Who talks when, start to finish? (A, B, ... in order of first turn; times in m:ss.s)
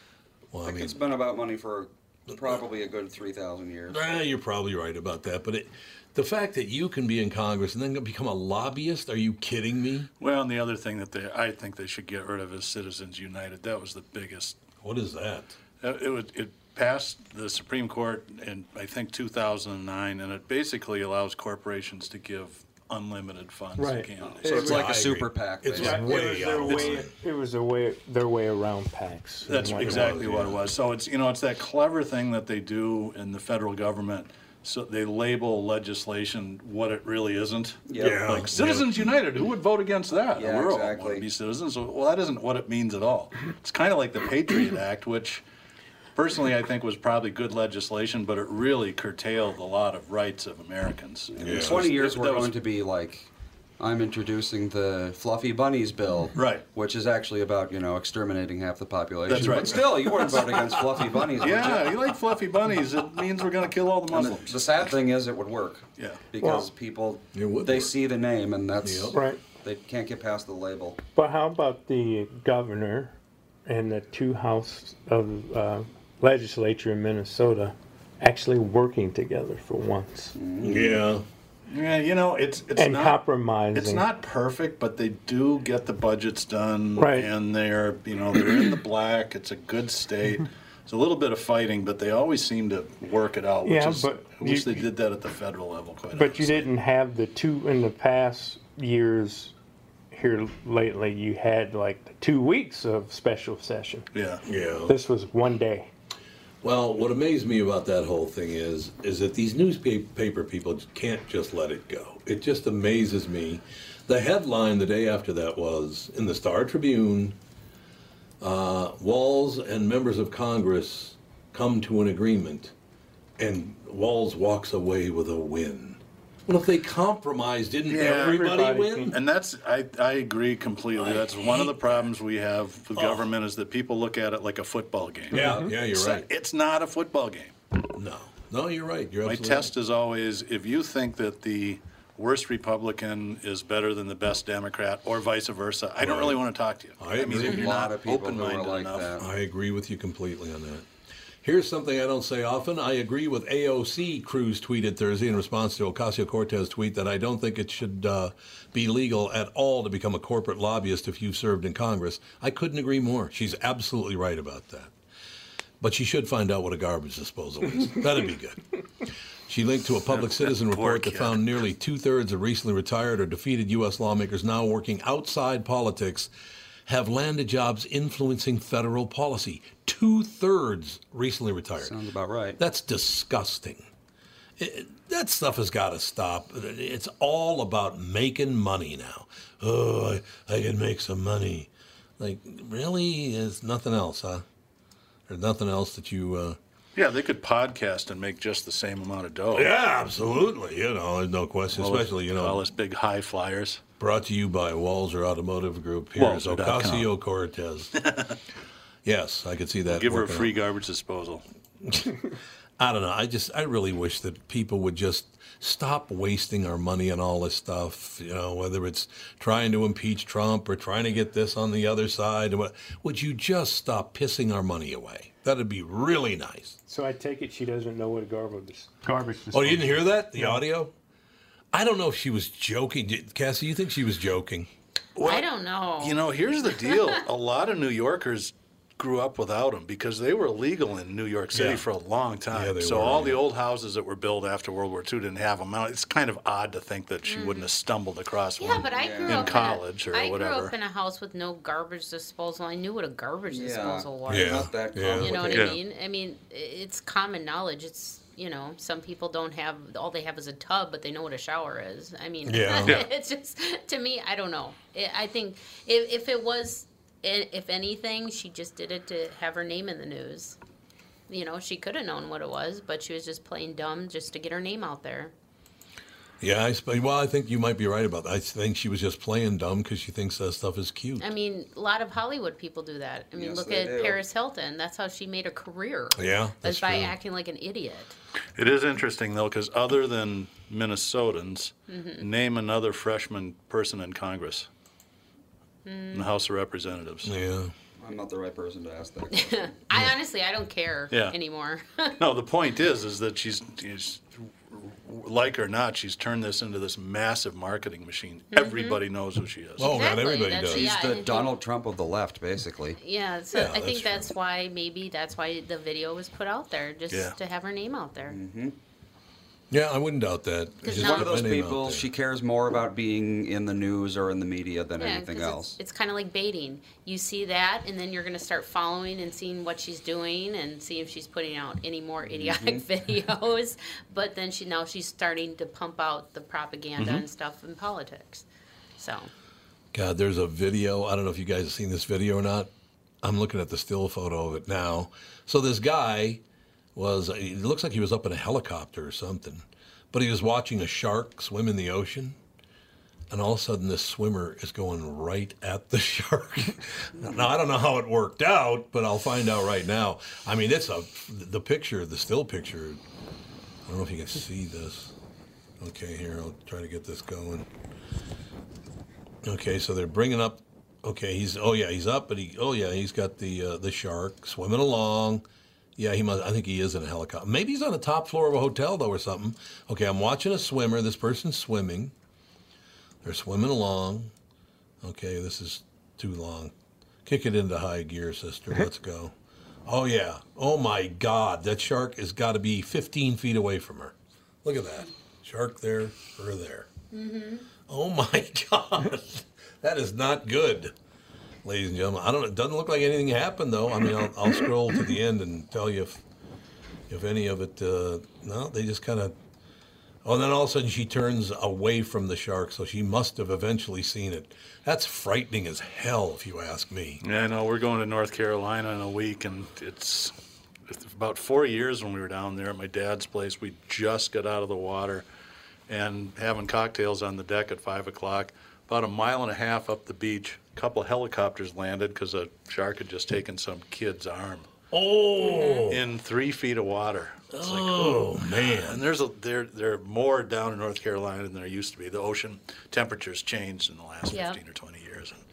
0:00.5-0:01.0 A
0:00.6-0:04.2 B
0:03.9-0:10.1 A
0:10.2-0:14.6 C
0:14.8-0:15.6 A
0:15.8-0:24.7 C
0:23.8-0:25.0 D
0:24.2-0:26.4 B
0:24.5-0:27.1 A
0:25.7-0:30.2 D
0:29.4-0:45.4 C
0:29.8-0:30.6 A
0:37.8-0:38.3 B
0:38.0-0:38.8 A
0:40.4-0:41.2 B
0:46.1-0:52.6 C
0:51.3-0:53.3 B
0:51.4-0:51.9 A
0:53.8-1:02.0 B
0:56.3-0:56.7 C
0:59.3-1:00.5 C
0:59.3-0:59.7 D
1:00.3-1:01.7 A
1:01.4-1:04.9 C
1:04.1-1:11.0 B
1:06.0-1:06.2 C
1:06.4-1:06.7 D
1:07.3-1:07.9 A
1:08.8-1:09.2 A
1:09.1-1:09.4 D
1:11.2-1:13.1 D
1:13.6-1:20.3 D
1:20.3-1:21.0 B
1:20.6-1:21.2 A
1:21.7-1:23.2 C
1:22.8-1:24.0 D
1:23.7-1:36.7 C
1:27.0-1:27.3 D
1:33.6-1:34.8 D
1:36.1-1:39.5 D
1:40.1-1:44.0 D
1:44.1-1:44.4 C
1:44.4-1:44.9 A
1:44.9-1:45.9 D
1:46.6-1:57.4 A
1:58.4-2:02.7 A
2:03.4-2:09.2 A
2:07.9-2:08.5 C
2:08.2-2:09.2 D
2:09.0-2:17.5 C
2:11.0-2:11.8 A
2:12.9-2:13.3 A
2:15.3-2:16.3 A
2:15.3-2:15.7 D
2:17.9-2:19.7 A
2:19.2-2:29.1 C
2:26.0-2:26.4 A
2:27.0-2:27.7 A
2:27.4-2:29.2 B
2:29.2-2:30.9 A
2:31.4-2:44.9 A
2:45.8-2:48.6 A
2:49.5-2:56.3 A
2:50.1-2:51.6 C
2:56.9-3:02.0 A
3:01.8-3:02.6 B
3:02.6-3:03.9 A
3:04.6-3:14.4 A
3:15.3-3:16.6 A
3:17.0-3:19.7 C
3:19.5-3:22.6 A
3:21.7-3:23.8 C
3:24.0-3:27.9 A
3:26.2-3:27.1 C
3:27.9-3:28.4 C
3:29.0-3:30.6 A
3:29.9-3:31.4 C
3:31.8-3:32.2 A
3:32.8-3:46.8 A
3:46.9-3:50.6 D
3:49.5-3:50.9 A
3:51.7-3:54.7 A
3:55.2-3:55.4 C
3:55.2-3:57.2 E
3:56.0-4:10.7 C
4:01.5-4:01.8 A
4:02.5-4:03.4 A
4:07.2-4:07.7 E
4:08.6-4:30.6 E
4:08.9-4:09.7 B
4:13.5-4:15.7 B
4:14.3-4:15.4 A
4:15.5-4:15.8 C
4:22.4-4:23.0 A
4:22.8-4:23.1 C
4:31.3-4:35.3 E
4:36.4-4:41.3 A
4:41.2-4:48.2 E
4:43.3-4:44.2 B
4:46.2-4:47.1 A
4:48.6-4:54.7 C
4:51.9-4:52.2 E
4:55.8-4:56.3 E
4:56.1-4:57.3 C
4:57.2-4:57.7 A
4:58.0-4:59.7 B
4:59.3-5:02.2 E
5:01.1-5:01.4 C
5:02.2-5:10.0 C
5:08.5-5:09.0 E
5:09.8-5:10.9 A
5:09.8-5:11.5 E
5:10.6-5:13.0 B
5:13.0-5:18.4 E
5:13.5-5:14.3 A
5:17.1-5:17.4 C
5:18.3-5:18.8 B
5:19.7-5:22.1 A
5:20.8-5:21.3 E
5:20.9-5:25.8 B
5:25.0-5:38.4 E
5:32.3-5:32.8 B
5:39.0-5:39.3 E
5:39.9-5:42.7 A
5:43.2-5:46.4 A
5:46.9-5:52.4 A
5:53.3-6:03.0 A
6:03.8-6:05.1 A
6:05.8-6:07.7 A
6:09.4-6:15.4 A
6:16.0-6:22.1 A
6:23.2-6:24.3 A
6:25.0-6:26.7 A
6:27.2-6:29.3 A
6:29.8-6:36.9 A
6:37.1-6:37.6 E
6:37.9-6:40.9 A
6:41.6-6:46.2 A
6:47.1-6:49.3 A
6:50.2-6:57.2 A
6:57.2-7:00.3 C
7:00.9-7:05.3 C
7:05.9-7:14.7 C
7:14.9-7:16.0 A
7:15.4-7:15.9 E
7:15.9-7:25.4 C
7:17.5-7:19.0 A
7:24.3-7:24.6 E